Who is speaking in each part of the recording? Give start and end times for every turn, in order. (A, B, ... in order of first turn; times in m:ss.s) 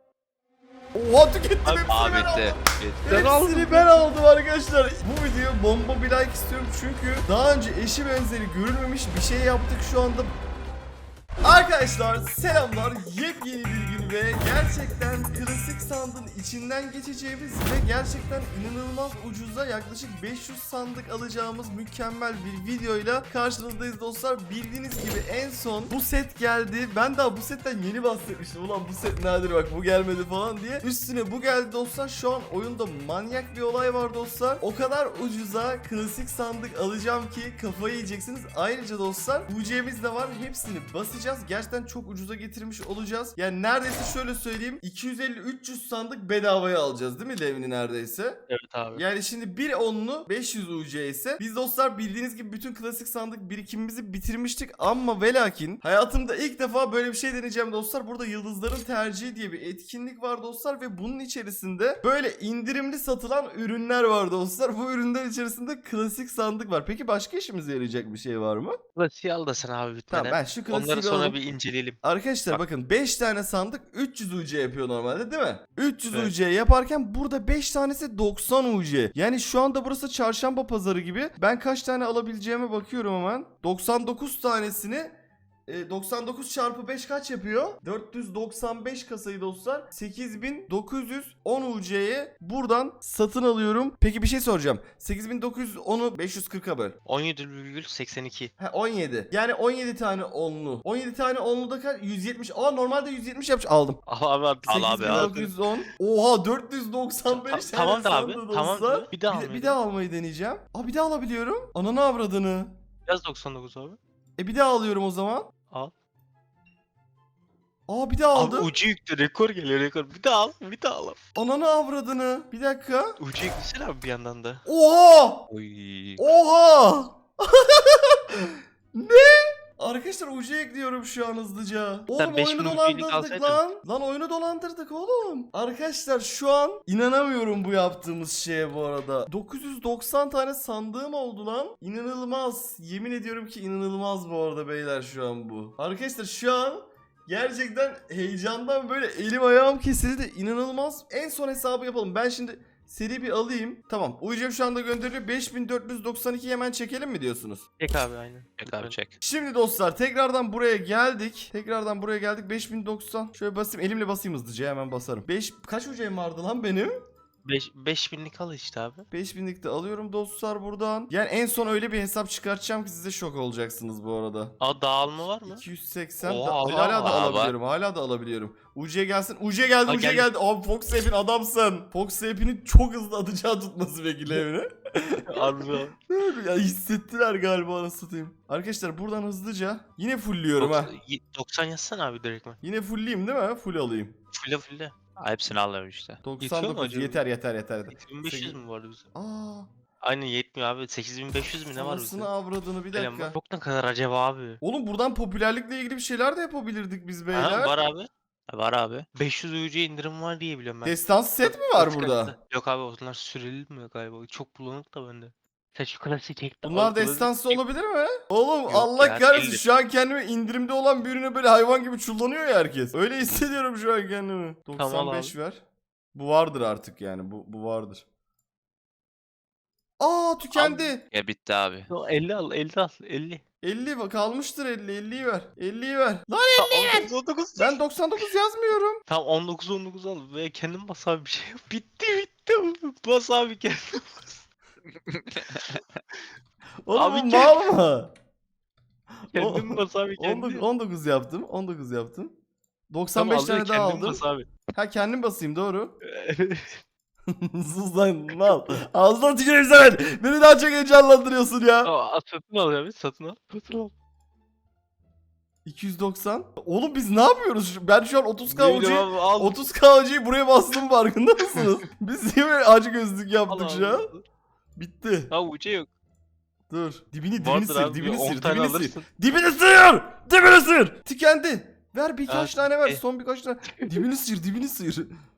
0:00.9-0:10.3 A
0:01.6-0:01.9 B
0:01.9-0:03.1 C
0:03.1-0:04.1 B
0:11.4-0:48.4 A
0:48.5-0:49.0 B
0:48.9-1:08.8 A
1:09.0-1:12.6 B
1:10.1-1:11.4 A
1:12.0-1:25.2 A
1:25.7-1:37.0 A
1:37.1-1:38.5 B
1:38.6-1:44.0 A
1:44.1-1:45.6 B
1:44.7-1:45.3 C
1:44.7-1:52.7 A
1:47.3-1:49.8 B
1:53.1-1:54.0 B
1:54.4-1:55.5 A
1:57.9-1:58.7 A
1:58.4-2:01.2 B
2:01.4-2:03.2 A
2:03.2-2:04.6 B
2:04.7-2:05.5 A
2:05.5-2:06.3 C
2:06.2-2:37.6 A
2:12.2-2:13.7 B
2:37.8-2:39.0 B
2:38.6-2:39.2 C
2:39.2-2:46.9 A
2:47.4-2:49.1 B
2:49.1-2:54.6 A
2:54.6-2:55.6 B
2:55.5-3:05.5 A
2:56.2-2:57.2 B
2:57.0-2:57.5 C
2:59.9-3:00.3 B
3:05.3-3:06.0 B
3:06.1-3:10.9 A
3:10.6-3:12.6 B
3:12.6-3:14.2 A
3:14.3-3:14.9 B
3:15.2-3:16.2 C
3:16.2-3:18.6 A
3:16.4-3:17.2 B
3:17.9-3:19.0 B
3:19.1-3:19.7 A
3:20.0-3:22.3 B
3:21.7-3:23.4 A
3:22.9-3:24.6 B
3:24.6-3:27.8 A
3:27.3-3:28.1 B
3:28.5-3:29.1 C
3:29.2-3:37.6 B
3:30.8-3:32.4 A
3:36.6-3:45.6 A
3:38.7-3:39.7 B
3:44.8-3:45.4 B
3:46.1-3:48.0 A
3:50.0-3:51.0 A
3:50.5-3:50.9 B
3:51.1-3:51.9 C
3:51.9-3:53.4 B
3:53.6-3:59.0 A
3:56.6-3:57.8 B
3:59.1-4:04.4 B
4:05.1-4:05.8 C
4:06.8-4:08.1 A
4:06.9-4:07.6 B
4:09.3-4:10.6 B
4:09.4-4:12.3 A
4:12.9-4:14.2 A
4:13.2-4:14.5 B
4:14.8-4:15.9 A
4:16.1-4:16.8 B
4:17.3-4:21.9 A
4:21.8-4:23.9 B
4:25.6-4:34.1 A
4:28.5-4:29.6 B
4:33.5-4:34.2 B
4:34.8-4:35.3 A
4:35.3-4:35.9 B
4:36.7-4:45.1 A
4:37.4-4:39.1 B
4:42.3-4:43.0 B